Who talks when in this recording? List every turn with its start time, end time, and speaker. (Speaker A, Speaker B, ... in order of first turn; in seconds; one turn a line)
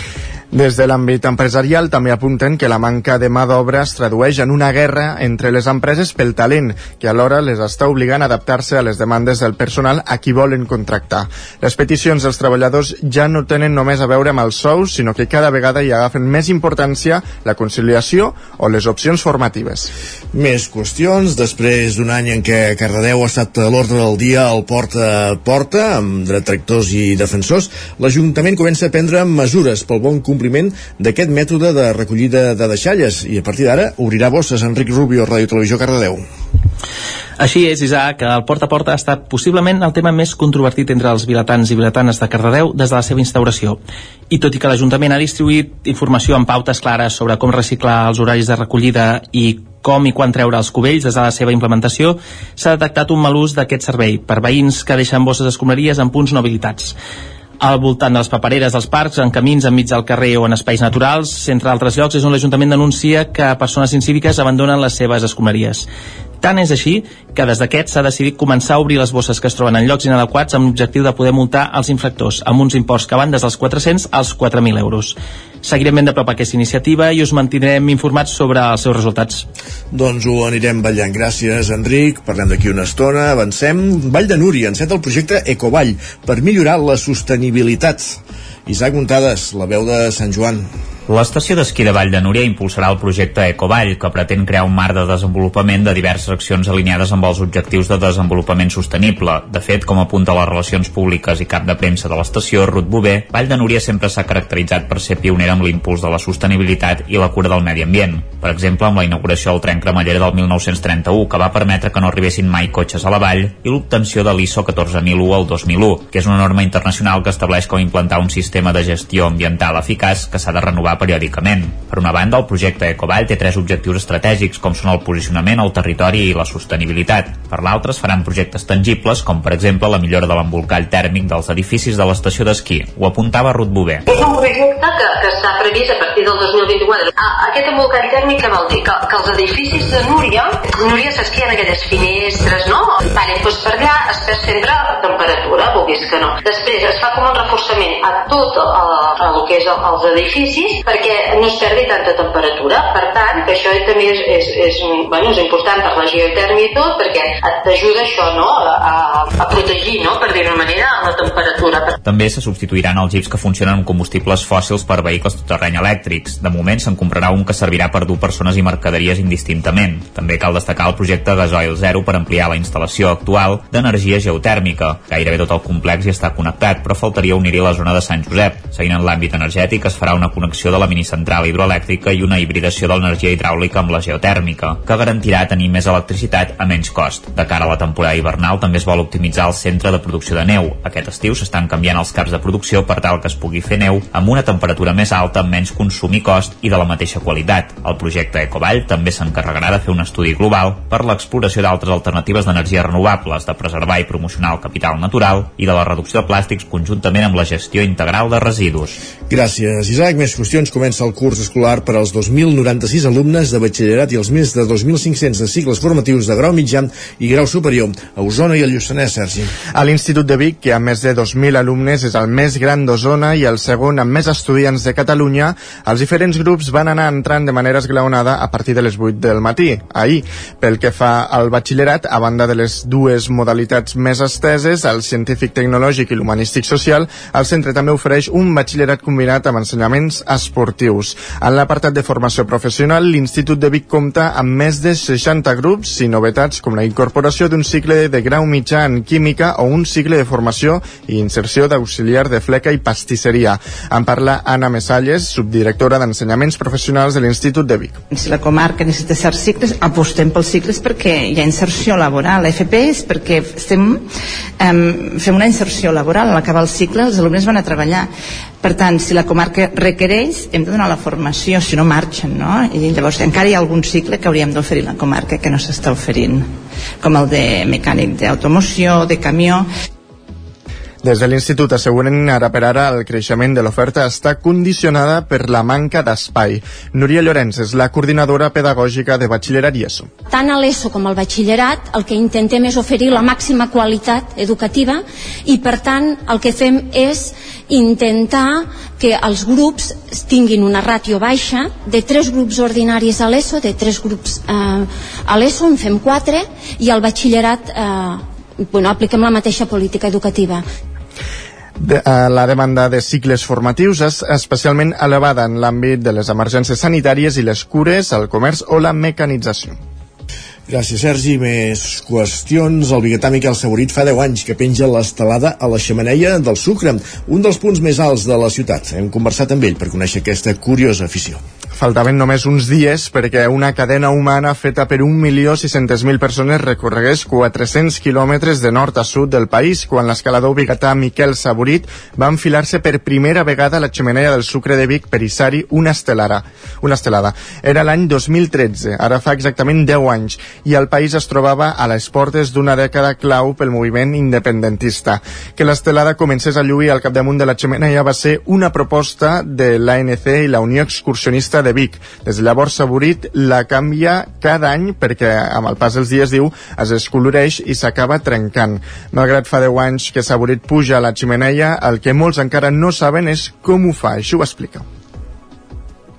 Speaker A: 0.5-19.9
Speaker B: 20.3-36.2
Speaker C: 37.4-57.0
Speaker C: 57.6-65.9
Speaker C: 66.4-79.5
Speaker B: 79.9-90.7
Speaker D: 91.1-134.0
Speaker E: 134.1-161.9
Speaker D: 162.0-209.0
Speaker B: 209.3-219.5
Speaker A: 219.7-258.0
Speaker F: 258.1-264.1
Speaker F: 264.6-268.1
Speaker F: 268.6-279.7
Speaker A: 281.0-290.1
Speaker G: 290.3-310.6
Speaker A: 311.8-319.8
Speaker B: 320.7-331.4
Speaker A: 331.7-374.8